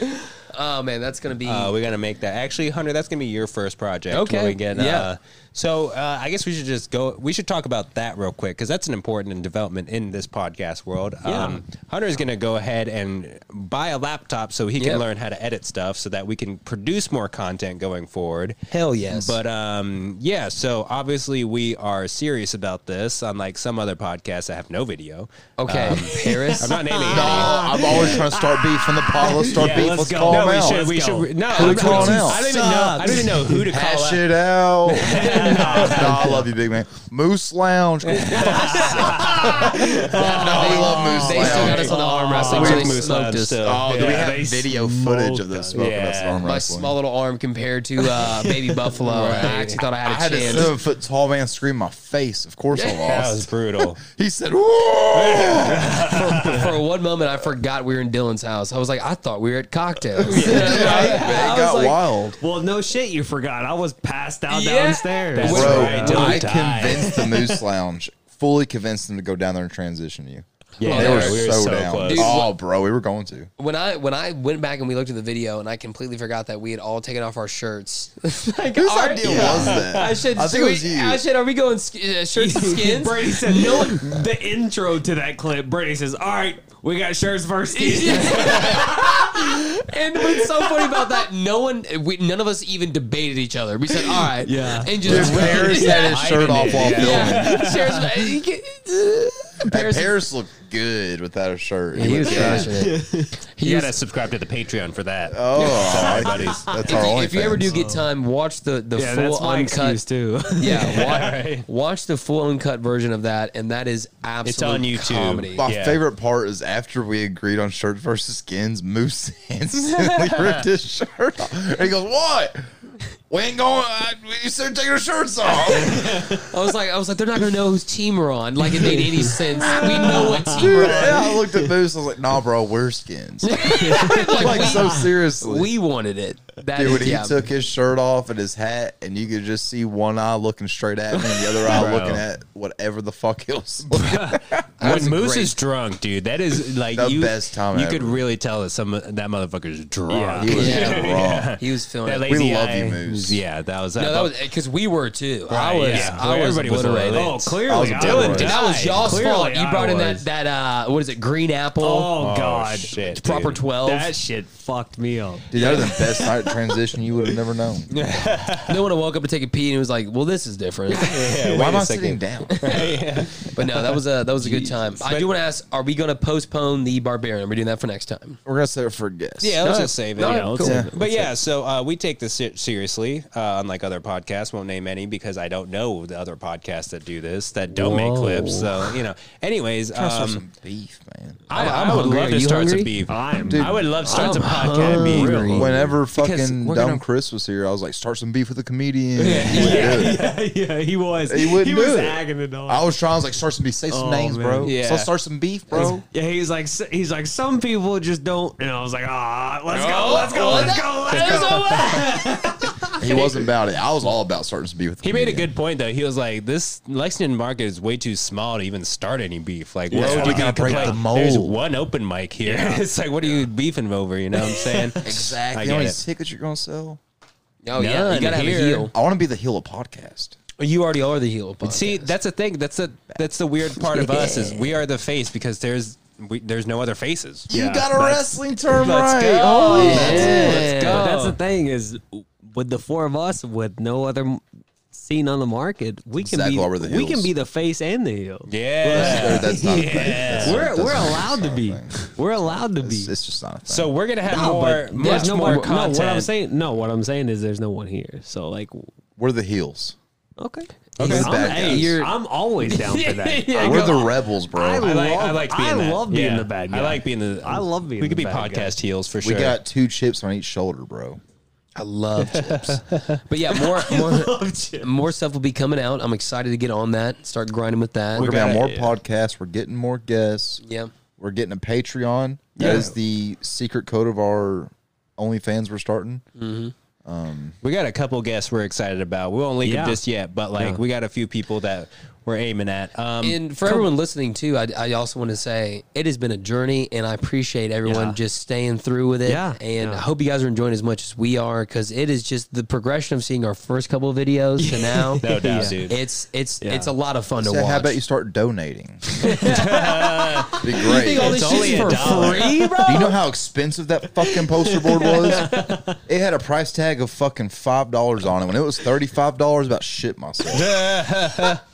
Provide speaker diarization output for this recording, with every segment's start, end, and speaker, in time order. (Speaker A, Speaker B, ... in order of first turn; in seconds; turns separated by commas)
Speaker A: 0.4-1.7, Speaker B: 1.4-18.6, Speaker A: 4.1-5.1, Speaker A: 11.2-11.6, Speaker A: 14.8-15.0, Speaker A: 18.7-19.4, Speaker B: 19.1-28.2, Speaker A: 25.6-26.8, Speaker C: 26.1-33.6, Speaker D: 27.1-30.8, Speaker B: 29.5-34.3, Speaker D: 31.5-32.5, Speaker A: 32.6-33.0, Speaker D: 33.6-43.0, Speaker C: 35.0-36.4, Speaker A: 35.0-36.4, Speaker B: 35.4-36.0, Speaker B: 38.1-40.0, Speaker C: 38.3-43.1, Speaker A: 39.2-39.5, Speaker A: 40.1-43.7, Speaker B: 41.4-44.3, Speaker D: 43.6-46.9, Speaker C: 43.9-45.9, Speaker B: 45.7-46.5, Speaker A: 46.4-50.7, Speaker C: 48.1-49.6, Speaker B: 49.0-49.8, Speaker D: 50.0-56.2, Speaker A: 52.7-53.1, Speaker B: 53.0-54.0, Speaker B: 55.1-56.8, Speaker A: 56.0-62.0, Speaker D: 60.2-62.4, Speaker B: 60.2-61.5, Speaker C: 60.7-61.7, Speaker C: 62.4-66.4, Speaker A: 64.5-66.4, Speaker B: 65.3-67.2, Speaker D: 65.4-73.5, Speaker C: 67.0-67.4, Speaker B: 70.8-72.4, Speaker C: 70.8-71.3, Speaker A: 70.8-71.5, Speaker A: 72.0-72.5, Speaker A: 73.6-84.2, Speaker D: 78.7-81.2, Speaker C: 79.2-79.7, Speaker B: 79.2-80.0, Speaker C: 82.3-89.6, Speaker A: 87.7-96.1, Speaker C: 90.2-91.1, Speaker C: 94.4-96.9, Speaker D: 95.0-97.5, Speaker B: 95.2-98.3, Speaker A: 96.8-100.1, Speaker D: 99.7-102.7, Speaker A: 101.9-103.9, Speaker C: 102.2-103.3, Speaker B: 103.6-106.8, Speaker D: 105.3-107.7, Speaker C: 105.6-107.0, Speaker A: 106.9-110.0, Speaker C: 107.6-108.1, Speaker C: 108.9-111.2, Speaker A: 110.5-115.7, Speaker B: 110.6-111.7, Speaker B: 114.4-116.0, Speaker D: 115.6-122.7, Speaker B: 119.9-120.6, Speaker D: 123.3-126.3, Speaker A: 125.6-131.3, Speaker C: 128.7-131.6, Speaker D: 129.5-135.7, Speaker A: 133.4-137.4, Speaker C: 133.7-135.1, Speaker D: 136.7-144.6, Speaker B: 141.7-142.2, Speaker B: 143.9-154.3, Speaker A: 144.8-145.5, Speaker D: 146.9-148.2, Speaker C: 150.1-151.0, Speaker D: 150.4-151.6, Speaker A: 150.5-152.4, Speaker D: 152.2-153.4, Speaker A: 153.9-162.1, Speaker B: 155.5-159.0, Speaker C: 155.9-156.3, Speaker C: 157.1-160.3, Speaker D: 157.7-158.6, Speaker C: 161.8-162.9, Speaker B: 162.2-163.6, Speaker A: 162.9-164.1, Speaker C: 163.8-166.7, Speaker D: 165.5-167.9, Speaker B: 167.9-168.8, Speaker A: 168.7-171.2, Speaker B: 171.0-175.3, Speaker C: 171.0-171.7, Speaker D: 171.5-172.8, Speaker A: 172.5-178.4, Speaker D: 178.4-179.6, Speaker B: 179.4-190.4, Speaker A: 179.6-180.8, Speaker C: 180.2-181.3, Speaker D: 180.6-180.9, Speaker A: 187.8-188.7, Speaker C: 188.0-188.3, Speaker D: 189.9-191.4, Speaker B: 191.5-197.0, Speaker A: 191.5-192.9, Speaker C: 193.1-195.6, Speaker D: 193.5-193.9, Speaker A: 194.1-195.7, Speaker D: 195.5-200.2, Speaker B: 199.2-200.3, Speaker A: 199.2-200.0, Speaker C: 199.2-202.8, Speaker D: 201.3-206.0, Speaker C: 203.9-204.7, Speaker B: 204.6-205.1, Speaker C: 205.7-213.3, Speaker A: 209.7-212.2, Speaker B: 211.1-211.9, Speaker D: 213.0-215.5, Speaker B: 215.0-226.0, Speaker C: 219.9-221.0, Speaker D: 219.9-221.6, Speaker C: 222.4-222.8, Speaker D: 225.0-227.0, Speaker A: 227.6-228.9, Speaker B: 227.7-228.9, Speaker D: 228.9-230.3, Speaker A: 230.6-232.1, Speaker B: 231.6-237.5, Speaker A: 233.8-234.8, Speaker D: 237.5-240.9, Speaker C: 237.5-238.4, Speaker B: 238.7-241.3, Speaker A: 239.6-241.2, Speaker C: 239.7-253.1, Speaker D: 246.2-247.3, Speaker B: 248.5-251.1, Speaker D: 248.9-253.9, Speaker B: 253.7-256.3, Speaker C: 254.3-258.9, Speaker A: 254.3-255.7, Speaker D: 259.2-259.9, Speaker C: 260.4-264.0, Speaker A: 261.0-264.1, Speaker B: 261.0-261.7, Speaker D: 261.0-261.9, Speaker D: 263.5-264.9, Speaker C: 264.5-268.8, Speaker B: 264.8-269.6, Speaker D: 269.2-271.2, Speaker A: 271.8-278.3, Speaker B: 272.2-273.2, Speaker C: 273.5-274.9, Speaker C: 278.1-278.9, Speaker D: 278.1-280.6, Speaker B: 278.2-278.6, Speaker A: 280.6-280.9, Speaker D: 281.2-286.2, Speaker C: 282.6-282.9, Speaker A: 286.4-286.7, Speaker D: 287.0-287.6, Speaker B: 287.6-293.4, Speaker C: 289.6-290.0, Speaker A: 293.2-308.0, Speaker C: 297.8-298.2, Speaker C: 299.2-300.0, Speaker C: 304.6-305.9, Speaker B: 305.2-305.9, Speaker C: 306.6-306.9, Speaker D: 307.4-309.0, Speaker C: 309.2-313.2, Speaker B: 309.4-310.6, Speaker D: 310.6-311.4, Speaker A: 310.8-312.8, Speaker B: 311.1-312.8, Speaker D: 312.8-320.8, Speaker C: 314.2-316.0, Speaker B: 320.5-321.6